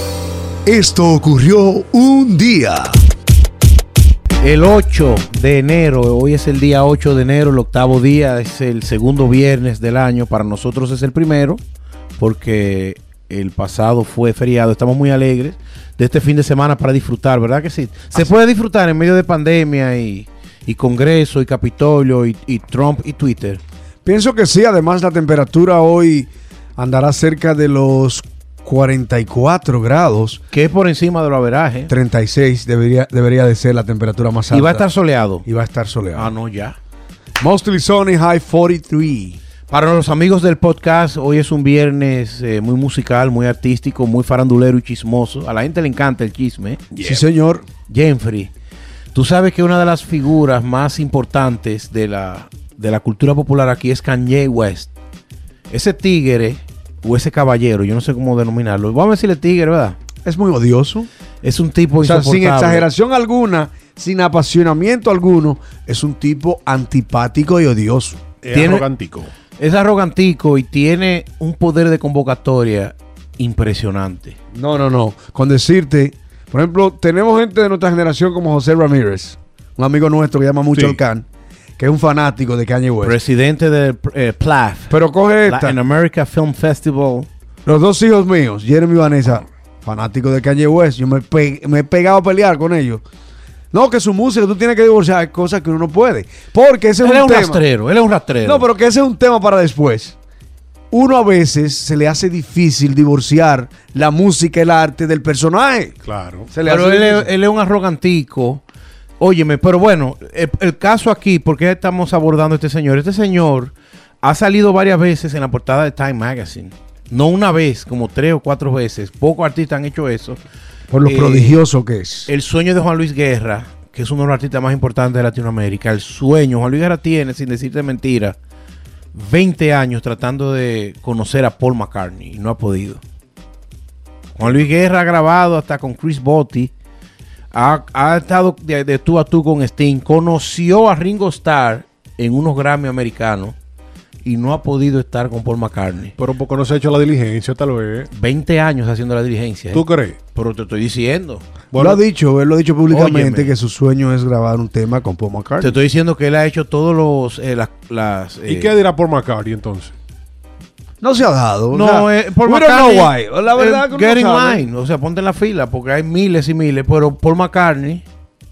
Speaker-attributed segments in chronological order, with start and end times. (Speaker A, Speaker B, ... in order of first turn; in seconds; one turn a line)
Speaker A: 0.7-3.0
Speaker B: 4.4-11.6
Speaker B: 12.2-23.6
Speaker A: 24.0-30.4
Speaker B: 30.5-31.9
Speaker A: 31.9-34.9
Speaker B: 34.5-35.5
Speaker A: 35.5-36.3
Speaker B: 36.1-36.8
Speaker A: 37.4-39.4
Speaker B: 39.7-46.9
Speaker A: 47.0-47.6
Speaker B: 47.9-48.5
Speaker B: 49.1-54.9
Speaker B: 55.7-60.0
Speaker A: 60.2-61.1
Speaker B: 61.4-62.9
Speaker A: 62.0-68.2
Speaker C: 68.4-69.3
Speaker B: 68.5-68.9
Speaker B: 69.6-74.4
Speaker A: 74.5-81.2
Speaker C: 80.7-81.0
Speaker A: 81.8-83.2
Speaker B: 83.0-87.3
Speaker A: 84.9-85.8
Speaker A: 87.7-93.0
Speaker A: 93.7-97.6
Speaker B: 97.0-98.6
Speaker A: 98.4-100.2
Speaker A: 100.9-106.0
Speaker C: 106.0-106.5
Speaker A: 106.5-107.3
Speaker B: 106.6-108.6
Speaker B: 109.2-120.4
Speaker A: 120.9-122.3
Speaker B: 121.0-121.6
Speaker B: 122.3-128.4
Speaker B: 129.1-133.0
Speaker B: 134.4-136.7
Speaker B: 137.5-143.6
Speaker B: 144.2-146.1
Speaker C: 146.2-148.1
Speaker B: 148.1-149.8
Speaker C: 149.7-150.2
Speaker B: 150.3-151.4
Speaker C: 151.7-152.0
Speaker A: 151.7-155.8
Speaker B: 152.9-153.5
Speaker B: 155.6-158.7
Speaker C: 158.5-159.9
Speaker A: 161.0-164.6
Speaker B: 161.7-168.0